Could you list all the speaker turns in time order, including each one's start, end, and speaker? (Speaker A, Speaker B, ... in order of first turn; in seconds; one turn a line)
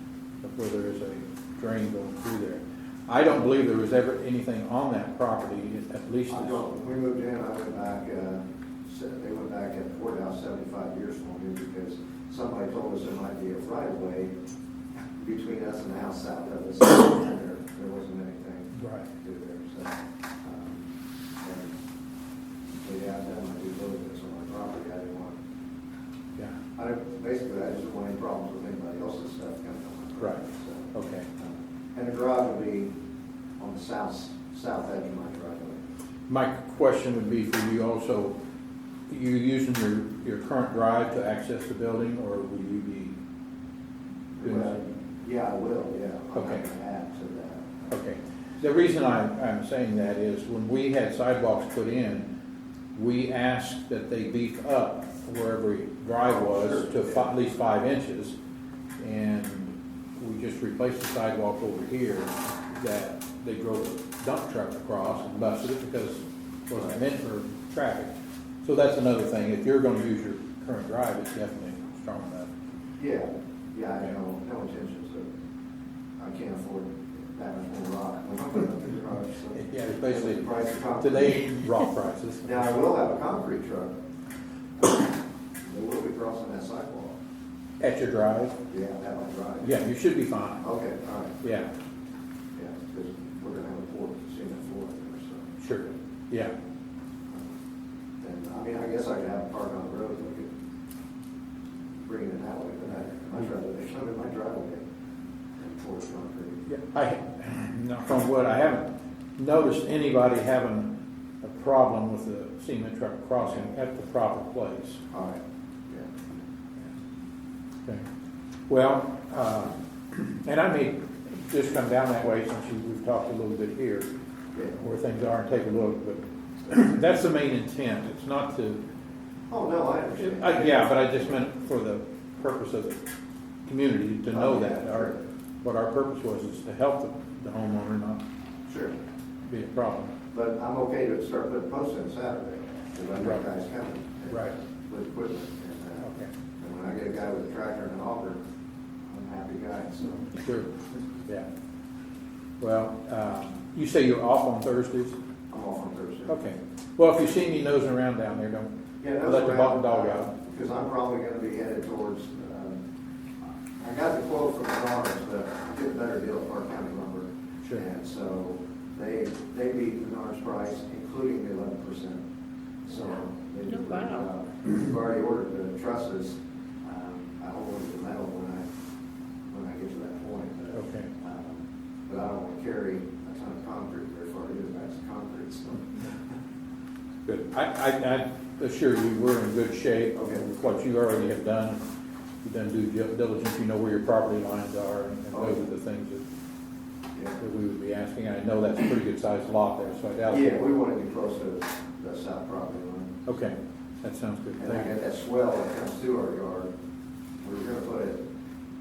Speaker A: 0.4-6.6
Speaker B: 6.3-14.3
Speaker B: 15.2-20.9
Speaker A: 18.8-19.1
Speaker B: 21.4-21.7
Speaker B: 22.7-25.4
Speaker B: 26.8-32.9
Speaker A: 30.2-31.3
Speaker B: 33.6-35.8
Speaker A: 36.3-38.4
Speaker A: 39.1-43.1
Speaker B: 44.4-47.7
Speaker A: 44.4-44.8
Speaker A: 46.3-46.6
Speaker A: 47.9-52.3
Speaker A: 53.0-58.3
Speaker B: 56.2-57.3
Speaker A: 59.0-68.1
Speaker A: 68.6-72.5
Speaker B: 73.0-75.3
Speaker B: 76.2-81.5
Speaker A: 79.5-82.7
Speaker B: 82.5-83.9
Speaker B: 84.8-87.2
Speaker A: 87.8-88.6
Speaker B: 88.7-89.8
Speaker A: 89.6-90.6
Speaker B: 90.6-91.3
Speaker A: 91.4-91.7
Speaker B: 92.5-95.5
Speaker A: 95.6-96.5
Speaker B: 98.2-100.5
Speaker B: 102.0-104.8
Speaker B: 105.6-106.6
Speaker A: 106.7-115.0
Speaker B: 113.4-113.7
Speaker B: 115.1-116.1
Speaker A: 118.7-124.1
Speaker B: 124.5-124.8
Speaker A: 124.8-128.8
Speaker B: 129.5-131.2
Speaker A: 130.2-133.0
Speaker A: 133.7-135.1
Speaker B: 134.3-135.2
Speaker A: 135.6-138.2
Speaker B: 138.7-138.9
Speaker A: 139.5-140.1
Speaker B: 140.3-146.1
Speaker A: 146.0-146.3
Speaker B: 146.6-148.4
Speaker B: 149.1-150.3
Speaker A: 150.3-150.7
Speaker A: 152.6-155.2
Speaker B: 155.5-156.4
Speaker A: 156.3-160.3
Speaker B: 159.0-162.8
Speaker B: 163.8-172.2
Speaker B: 172.9-178.7
Speaker B: 179.5-186.1
Speaker A: 180.7-181.1
Speaker A: 187.2-191.8
Speaker B: 190.2-190.5
Speaker A: 192.4-196.2
Speaker B: 195.3-195.6
Speaker A: 197.4-200.6
Speaker B: 200.3-203.2
Speaker A: 203.2-204.9
Speaker B: 204.6-206.7
Speaker B: 207.4-208.2